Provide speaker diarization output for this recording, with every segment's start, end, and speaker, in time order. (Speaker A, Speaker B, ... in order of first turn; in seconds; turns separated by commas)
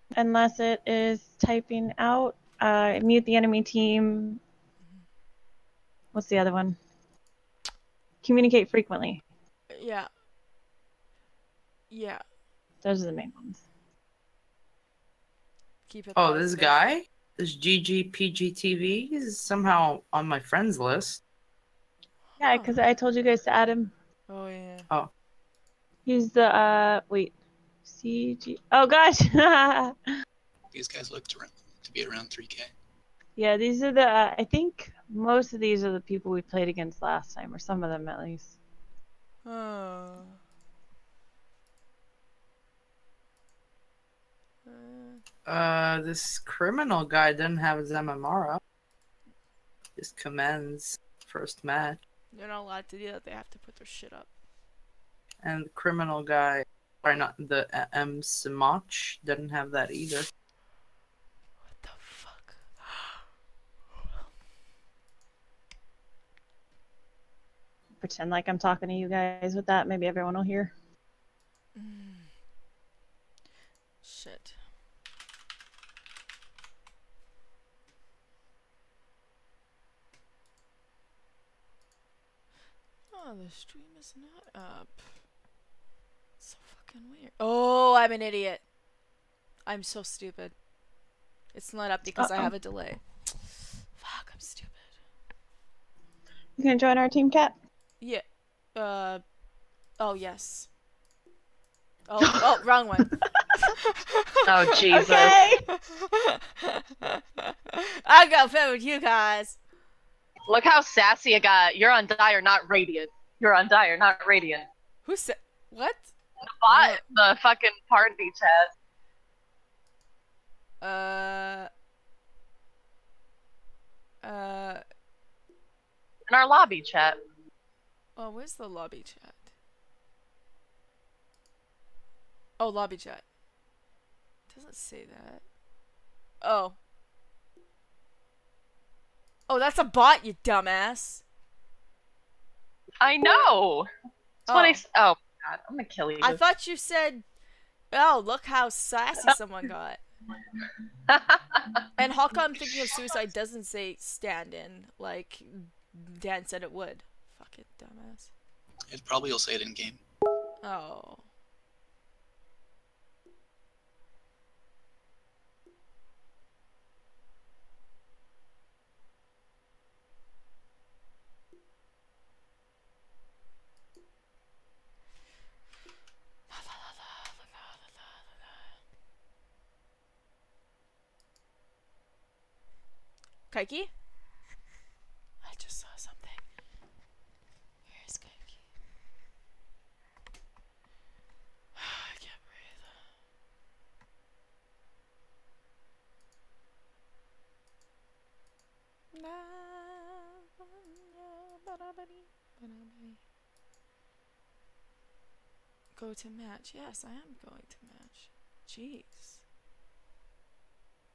Speaker A: 0.1-4.4, Speaker B: 4.8-5.0, Speaker A: 6.1-6.8, Speaker A: 8.2-9.2, Speaker B: 9.7-10.1, Speaker B: 11.9-12.2, Speaker A: 12.8-13.6, Speaker B: 15.9-16.9, Speaker C: 16.1-21.2, Speaker B: 22.3-22.8, Speaker A: 22.4-23.9, Speaker B: 24.3-24.9, Speaker A: 26.1-27.3, Speaker A: 27.9-29.9, Speaker D: 30.7-32.7, Speaker A: 33.4-38.5, Speaker B: 39.4-40.4, Speaker B: 44.6-45.2, Speaker C: 45.5-48.6, Speaker C: 50.0-52.0, Speaker B: 52.3-54.3, Speaker C: 55.4-60.3, Speaker B: 61.6-63.2, Speaker A: 68.0-70.7, Speaker B: 71.7-72.3, Speaker B: 74.0-74.6, Speaker B: 83.1-85.2, Speaker B: 86.4-88.6, Speaker B: 89.7-90.5, Speaker B: 91.5-94.9, Speaker A: 92.2-92.5, Speaker A: 96.6-97.5, Speaker B: 98.0-99.2, Speaker B: 100.0-100.7, Speaker B: 102.1-104.6, Speaker E: 104.5-105.4, Speaker A: 104.9-105.6, Speaker B: 108.0-109.6, Speaker E: 110.5-114.7, Speaker B: 115.0-116.1, Speaker E: 116.6-118.7, Speaker B: 116.7-117.0, Speaker B: 120.8-121.7, Speaker B: 124.2-124.8, Speaker E: 126.3-127.2, Speaker B: 128.2-129.5, Speaker B: 132.6-133.2, Speaker B: 134.5-135.4, Speaker B: 136.4-136.8, Speaker B: 139.5-141.2, Speaker E: 143.0-143.9, Speaker B: 144.5-144.8, Speaker E: 144.5-146.4, Speaker B: 146.2-147.2, Speaker B: 147.9-150.0, Speaker E: 151.1-151.4, Speaker B: 152.0-158.3, Speaker D: 158.9-160.0, Speaker B: 160.6-161.3, Speaker B: 176.5-178.7, Speaker B: 183.5-183.9, Speaker B: 185.4-186.4, Speaker B: 187.8-188.6, Speaker B: 191.7-193.0, Speaker B: 199.1-200.3, Speaker B: 200.9-203.2, Speaker B: 205.9-209.4